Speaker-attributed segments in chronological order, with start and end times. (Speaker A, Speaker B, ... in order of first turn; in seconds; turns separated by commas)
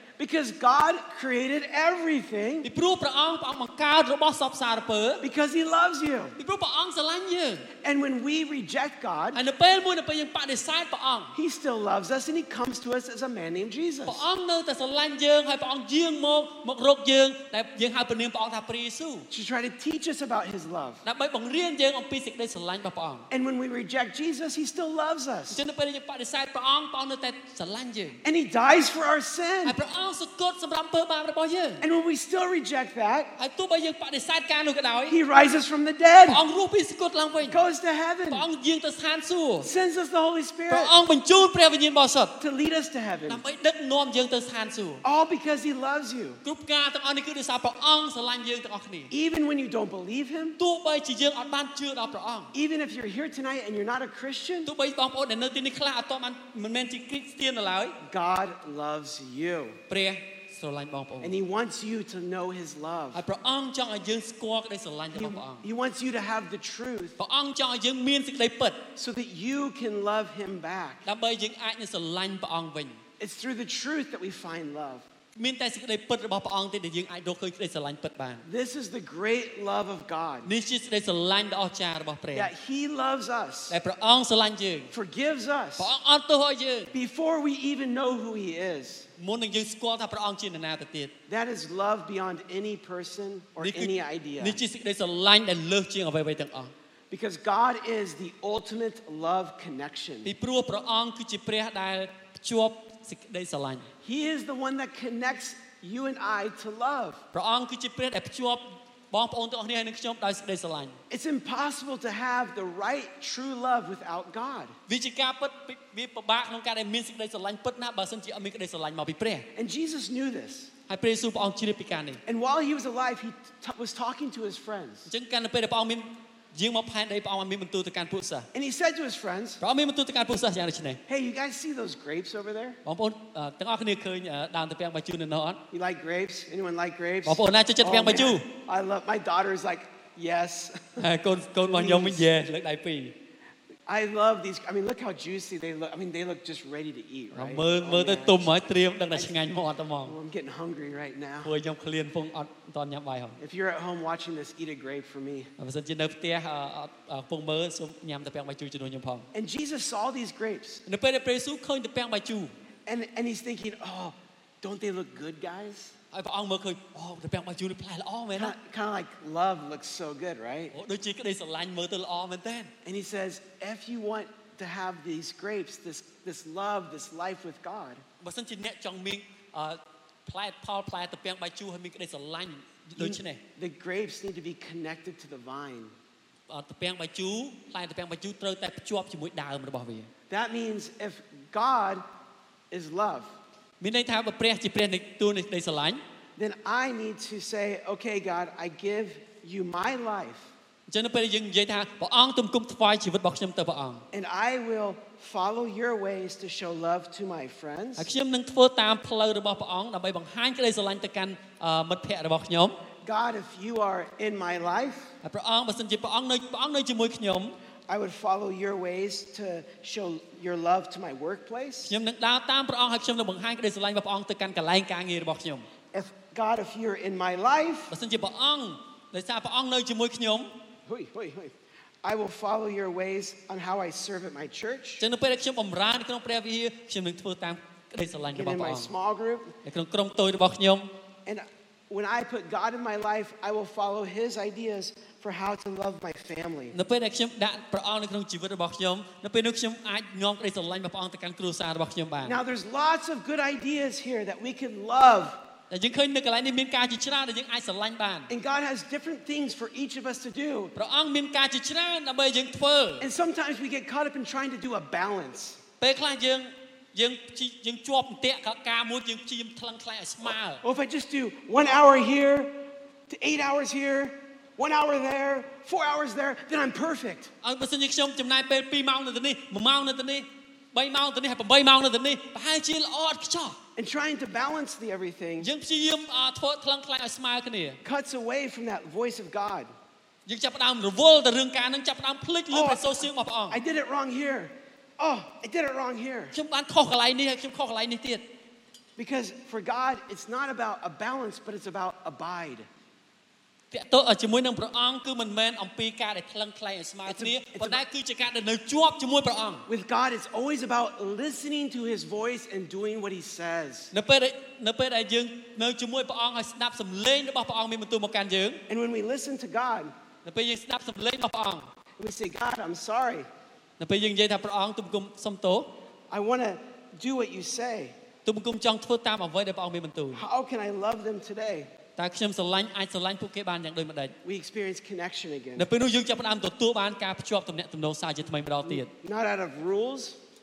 Speaker A: 0.2-2.7, Speaker B: 2.6-5.2, Speaker A: 5.2-6.3, Speaker B: 6.4-7.7, Speaker A: 7.8-9.4, Speaker B: 9.3-11.3, Speaker A: 11.3-14.2, Speaker B: 14.0-19.3, Speaker A: 19.3-21.0, Speaker B: 21.0-23.3, Speaker A: 23.3-25.6, Speaker B: 25.5-28.2, Speaker A: 28.2-29.8, Speaker B: 29.6-31.8, Speaker A: 31.8-33.3, Speaker B: 33.4-35.2, Speaker A: 35.1-36.4, Speaker B: 36.3-37.6, Speaker A: 37.4-38.5, Speaker B: 38.3-39.7, Speaker A: 39.6-40.9, Speaker B: 40.7-42.3, Speaker A: 42.4-43.4, Speaker B: 43.3-45.0, Speaker A: 45.0-46.4, Speaker B: 46.4-49.1, Speaker A: 49.1-50.6, Speaker B: 50.6-52.5, Speaker A: 52.5-54.7, Speaker B: 54.6-58.0, Speaker A: 58.0-59.8, Speaker B: 59.9-61.3, Speaker A: 61.2-63.2, Speaker B: 63.1-65.7, Speaker A: 65.1-67.2, Speaker B: 67.2-68.9, Speaker A: 69.0-71.0, Speaker B: 71.0-73.0, Speaker A: 73.2-75.1, Speaker B: 75.3-78.5, Speaker A: 78.4-80.5, Speaker B: 80.4-82.5, Speaker A: 82.3-83.8, Speaker B: 83.7-84.9, Speaker A: 84.9-85.9, Speaker B: 85.8-86.9, Speaker A: 86.9-89.1, Speaker B: 89.2-91.1, Speaker A: 91.3-94.6, Speaker B: 93.6-96.7, Speaker A: 97.1-100.3, Speaker B: 100.2-103.9, Speaker A: 104.0-107.2, Speaker B: 107.3-111.0, Speaker A: 111.1-114.7, Speaker B: 114.9-119.5, Speaker A: 119.5-120.7, Speaker B: 120.9-122.2, Speaker A: 122.2-125.1, Speaker B: 125.1-128.5, Speaker A: 128.5-129.6, Speaker B: 129.6-131.0, Speaker A: 131.1-132.8, Speaker B: 132.8-135.6, Speaker A: 135.7-141.1, Speaker B: 137.2-138.4, Speaker B: 141.0-143.1, Speaker A: 141.6-142.4, Speaker A: 143.9-149.3, Speaker B: 147.3-150.2, Speaker A: 150.0-151.5, Speaker B: 151.4-153.4, Speaker A: 153.4-155.5, Speaker B: 155.6-159.3, Speaker A: 159.3-160.8, Speaker B: 160.9-162.5, Speaker A: 162.8-165.9, Speaker B: 166.1-168.5, Speaker A: 168.3-170.7, Speaker B: 170.7-172.7, Speaker A: 172.8-178.0, Speaker B: 178.2-183.4, Speaker A: 182.9-185.9, Speaker B: 186.5-190.1, Speaker A: 190.3-192.0, Speaker A: 192.7-193.3, Speaker B: 193.8-196.0, Speaker A: 196.4-200.5, Speaker B: 200.9-204.0, Speaker A: 204.1-208.1, Speaker B: 208.0-212.8, Speaker A: 213.0-215.1, Speaker B: 215.2-217.6, Speaker A: 217.9-221.9, Speaker B: 221.8-225.7, Speaker A: 225.9-227.9, Speaker B: 227.9-230.5, Speaker A: 230.8-235.0, Speaker B: 235.0-238.9, Speaker A: 238.3-239.5, Speaker B: 239.6-240.9, Speaker A: 241.2-246.8, Speaker B: 246.7-252.4, Speaker A: 252.2-255.4, Speaker B: 255.7-258.3, Speaker A: 258.3-260.7, Speaker B: 260.8-263.1, Speaker A: 263.0-265.6, Speaker B: 265.8-270.6, Speaker A: 270.6-277.3, Speaker B: 277.4-283.6, Speaker A: 283.8-285.5, Speaker B: 285.4-287.8, Speaker A: 287.8-289.7, Speaker B: 290.3-293.6, Speaker A: 292.5-296.3, Speaker B: 296.3-298.2, Speaker A: 299.0-302.7, Speaker B: 303.7-309.7, Speaker A: 307.1-307.8, Speaker A: 309.7-313.9, Speaker B: 313.9-318.6, Speaker A: 318.7-319.9, Speaker B: 320.2-321.7, Speaker A: 322.0-323.3, Speaker B: 323.8-325.7, Speaker A: 326.1-328.0, Speaker B: 328.2-330.2, Speaker A: 330.1-331.7, Speaker B: 332.0-334.1, Speaker A: 334.2-335.7, Speaker B: 335.6-338.9, Speaker A: 338.6-340.2